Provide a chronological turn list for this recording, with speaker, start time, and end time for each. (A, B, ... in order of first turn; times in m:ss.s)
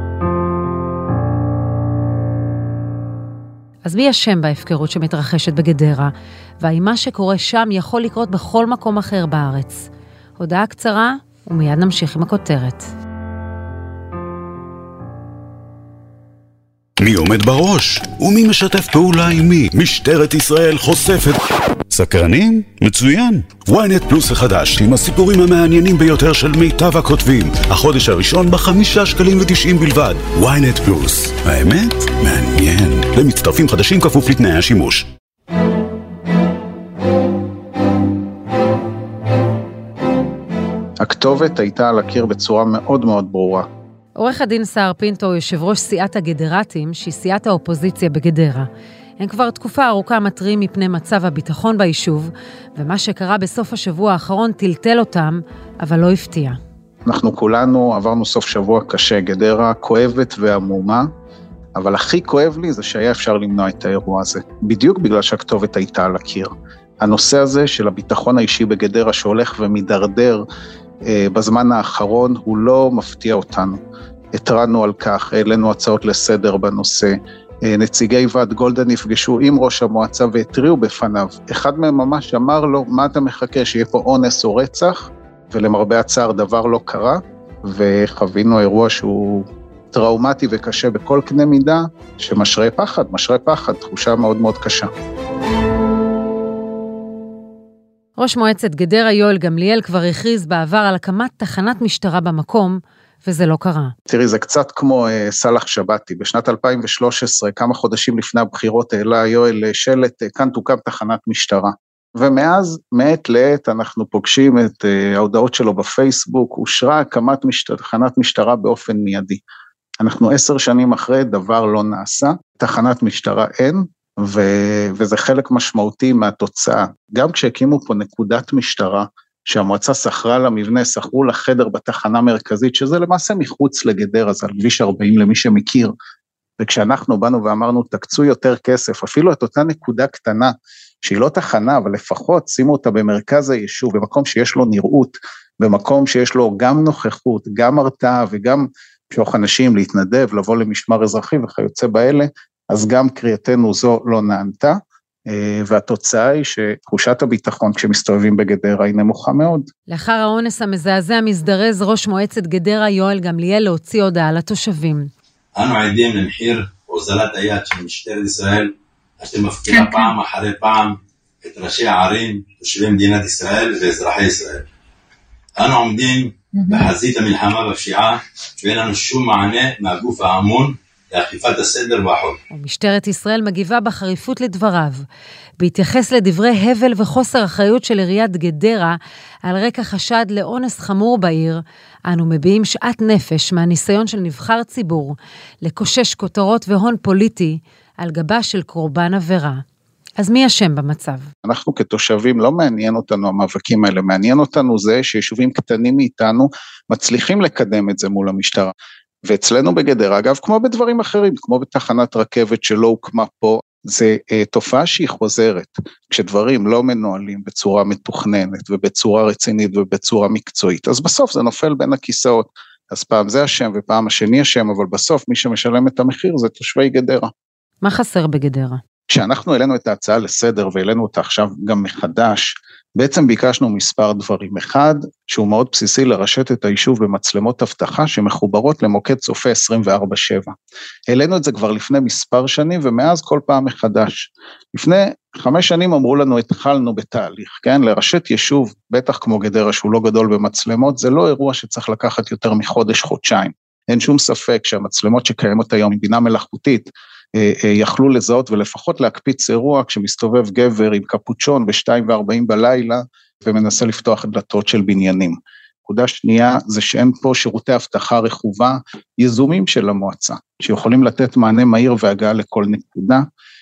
0:03.8-0:12.9 A
0:17.0-0:35.1 B
0:41.0-0:43.7 C
0:44.2-0:48.7 A
0:49.2-0:56.6 A
0:57.0-1:01.1 C
1:01.8-1:06.5 C
1:07.0-1:10.4 C
1:11.0-1:13.8 C
1:14.3-1:34.9 C
1:38.2-1:43.9 A
1:44.1-1:59.4 C
2:00.0-2:15.9 C
2:16.6-2:39.7 C
2:39.9-2:45.1 A
2:45.6-2:54.6 D
2:55.6-3:02.4 D
3:02.5-3:05.0 A
3:05.6-3:19.6 A
3:20.2-3:21.3 A
3:21.4-3:28.7 C
3:29.3-3:47.3 C
3:47.8-3:48.8 A
3:49.1-4:00.5 C
4:01.1-4:33.2 C